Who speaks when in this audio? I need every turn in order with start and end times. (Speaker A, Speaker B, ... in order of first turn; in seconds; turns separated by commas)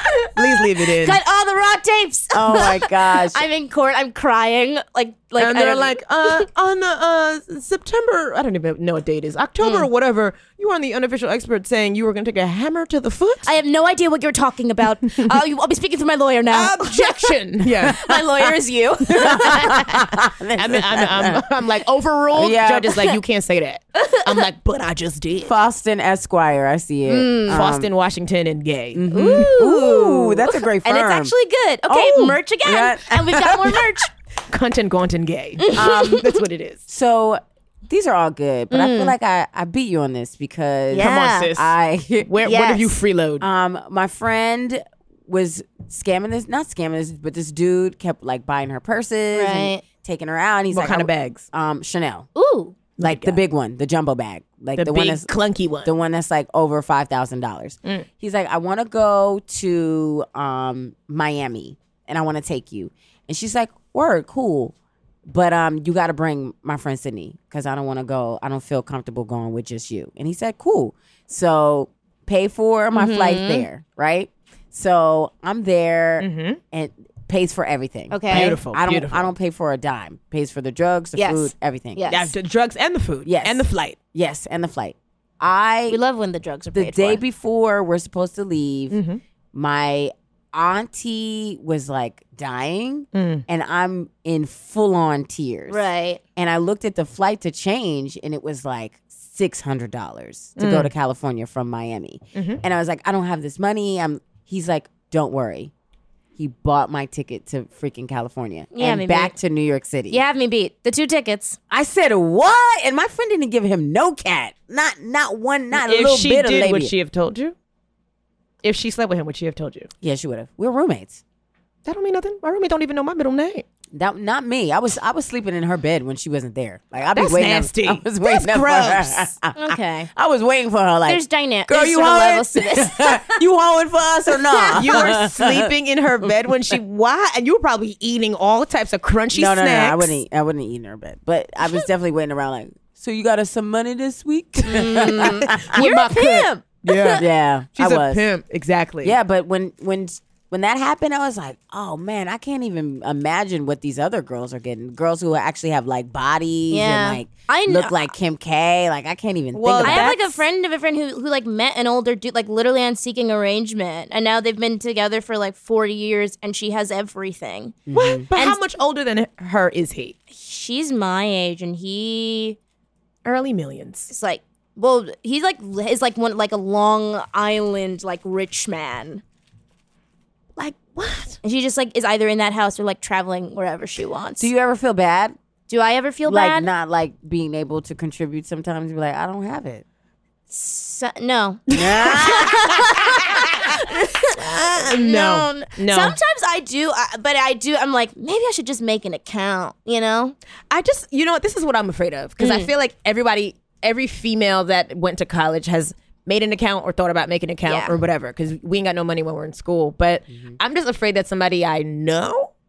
Speaker A: 0.3-1.2, Speaker B: 1.0-6.4, Speaker C: 2.3-3.4, Speaker A: 5.4-13.4, Speaker B: 9.6-9.9, Speaker B: 13.4-17.3, Speaker A: 16.5-18.1, Speaker B: 17.9-20.0, Speaker C: 19.1-21.4, Speaker A: 20.6-25.5, Speaker C: 22.3-23.1, Speaker B: 24.0-24.2, Speaker C: 25.4-27.9, Speaker B: 27.1-27.6, Speaker A: 27.5-29.5, Speaker C: 28.9-31.3, Speaker B: 29.1-34.1, Speaker C: 31.9-33.9, Speaker A: 34.5-36.8, Speaker B: 35.6-36.3, Speaker C: 35.7-36.3, Speaker C: 36.9-42.3, Speaker B: 38.7-39.1, Speaker B: 40.9-41.5, Speaker A: 41.0-41.7, Speaker A: 42.3-43.4, Speaker B: 42.4-42.9, Speaker C: 43.4-52.3, Speaker B: 49.3-49.8, Speaker A: 50.7-51.4, Speaker B: 52.4-52.7, Speaker A: 53.0-53.4, Speaker C: 53.0-55.3, Speaker A: 54.8-55.9, Speaker C: 55.8-64.7, Speaker C: 65.2-82.1, Speaker B: 72.9-73.7, Speaker A: 76.2-76.6, Speaker B: 78.1-78.6, Speaker A: 78.3-79.3, Speaker B: 81.2-82.3, Speaker A: 82.1-84.0, Speaker C: 83.2-86.0, Speaker B: 85.9-87.2, Speaker C: 86.7-89.0, Speaker A: 88.9-89.2, Speaker C: 89.5-95.8, Speaker A: 93.1-93.4, Speaker B: 95.7-96.2, Speaker C: 96.3-105.7, Speaker A: 100.6-100.9, Speaker A: 102.3-102.6, Speaker C: 106.3-110.2, Speaker B: 108.7-109.3, Speaker B: 110.1-111.6, Speaker C: 111.7-116.9, Speaker A: 115.7-117.5, Speaker A: 118.6-119.9, Speaker C: 120.0-121.2, Speaker A: 121.8-123.6, Speaker C: 123.9-135.7, Speaker A: 127.1-129.3, Speaker B: 129.6-130.1, Speaker B: 131.1-133.4, Speaker B: 134.5-134.9, Speaker A: 134.8-140.2, Speaker C: 139.3-146.4, Speaker B: 144.6-147.2, Speaker A: 145.0-149.2, Speaker C: 147.1-148.2, Speaker C: 149.0-160.1, Speaker B: 156.7-158.1, Speaker A: 159.5-160.4, Speaker B: 159.8-167.8, Speaker C: 167.9-168.2, Speaker A: 167.9-170.2, Speaker B: 168.3-168.6, Speaker B: 170.3-172.6, Speaker A: 173.2-174.1, Speaker B: 174.1-179.2, Speaker A: 180.6-181.4, Speaker B: 181.4-184.5, Speaker C: 184.4-185.3, Speaker B: 185.7-186.7, Speaker C: 186.2-189.8, Speaker B: 190.5-200.3, Speaker A: 191.7-192.5, Speaker C: 191.7-192.9, Speaker A: 193.1-193.6, Speaker A: 194.3-196.2, Speaker A: 200.7-212.5, Speaker B: 202.4-202.7, Speaker B: 207.7-207.9, Speaker C: 210.3-210.6